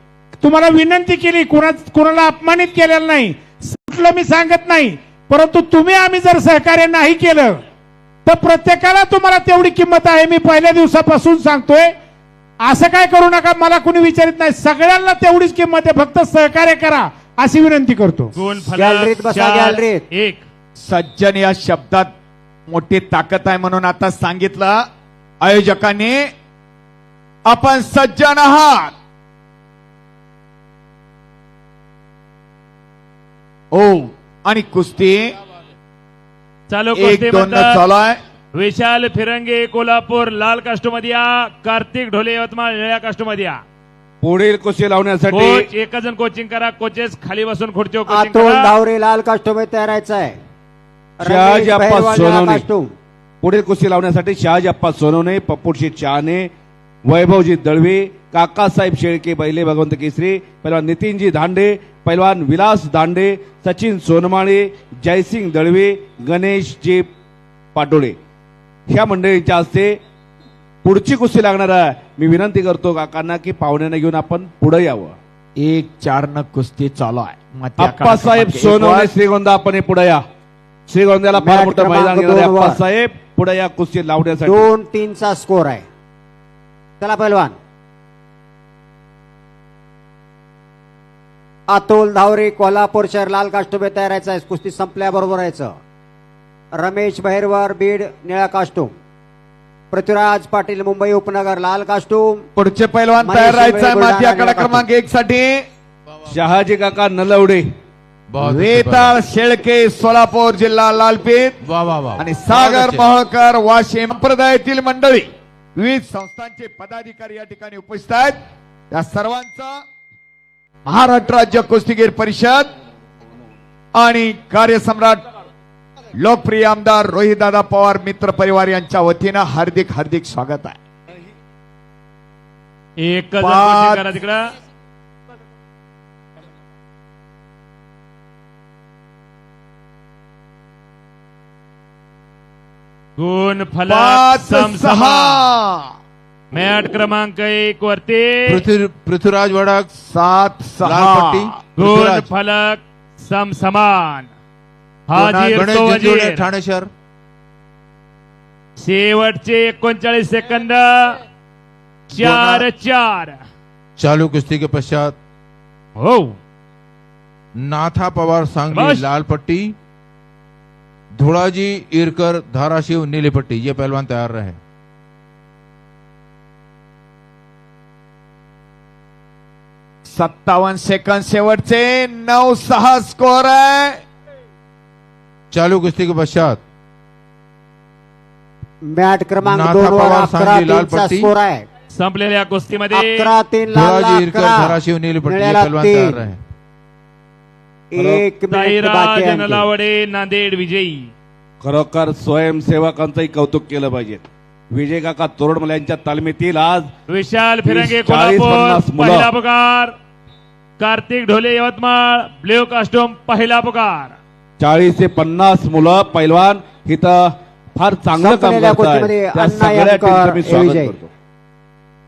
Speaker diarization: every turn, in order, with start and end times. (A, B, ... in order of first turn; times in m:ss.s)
0:00.4-0:07.6 A
0:08.3-0:11.9 A
0:12.6-0:18.3 A
0:18.4-0:20.4 B
0:18.7-0:20.0 C
0:20.8-0:22.1 D
0:22.7-0:24.8 D
0:25.4-0:26.3 D
0:27.5-0:28.9 D
0:33.7-0:35.3 D
0:36.7-0:37.8 B
0:37.0-0:38.2 D
0:38.6-0:43.6 B
0:44.2-0:45.7 E
0:45.3-0:48.7 B
0:48.1-0:50.4 C
0:51.2-0:52.9 C
0:51.2-0:52.6 E
0:53.4-0:56.5 E
0:57.1-1:07.1 E
1:07.8-1:08.2 E
1:08.9-1:10.0 E
1:10.8-1:15.2 E
1:15.6-1:19.1 D
1:17.8-1:20.2 E
1:20.9-1:24.7 E
1:21.3-1:22.8 C
1:24.4-1:25.8 C
1:27.0-1:27.6 C
1:31.7-1:35.7 C
1:36.8-1:38.9 C
1:39.9-1:42.5 C
1:42.6-1:45.6 D
1:43.2-1:44.9 C
1:46.3-1:47.6 E
1:48.3-1:49.2 F
1:48.4-1:51.6 D
1:51.6-1:53.0 F
1:52.2-1:58.4 D
1:58.9-1:59.8 D
2:00.9-2:02.7 D
2:04.0-2:05.2 D
2:06.2-2:10.8 D
2:13.0-2:14.4 B
2:13.4-2:14.1 D
2:23.2-2:25.4 B
2:23.9-2:25.9 D
2:26.5-2:28.6 B
2:28.5-2:29.9 F
2:30.0-2:31.6 D
2:30.8-2:32.3 F
2:31.8-2:34.3 B
2:35.1-2:36.5 B
2:35.2-2:35.5 D
2:35.5-2:36.9 F
2:38.8-2:41.2 B
2:42.1-2:43.4 B
2:42.2-2:42.7 D
2:44.0-2:45.2 F
2:46.0-2:46.4 B
2:47.6-2:49.8 F
2:48.7-2:49.1 B
2:51.2-2:54.6 F
3:00.1-3:04.0 D
3:05.5-3:06.6 F
3:08.9-3:11.7 C
3:09.4-3:11.3 F
3:11.9-3:13.2 B
3:12.9-3:16.2 C
3:13.7-3:16.4 F
3:17.9-3:19.7 C
3:18.0-3:18.2 E
3:18.5-3:21.1 B
3:21.6-3:26.9 E
3:27.1-3:29.9 B
3:27.6-3:29.3 E
3:30.8-3:34.2 B
3:34.6-3:37.2 E
3:37.8-3:41.1 E
3:38.2-3:41.0 C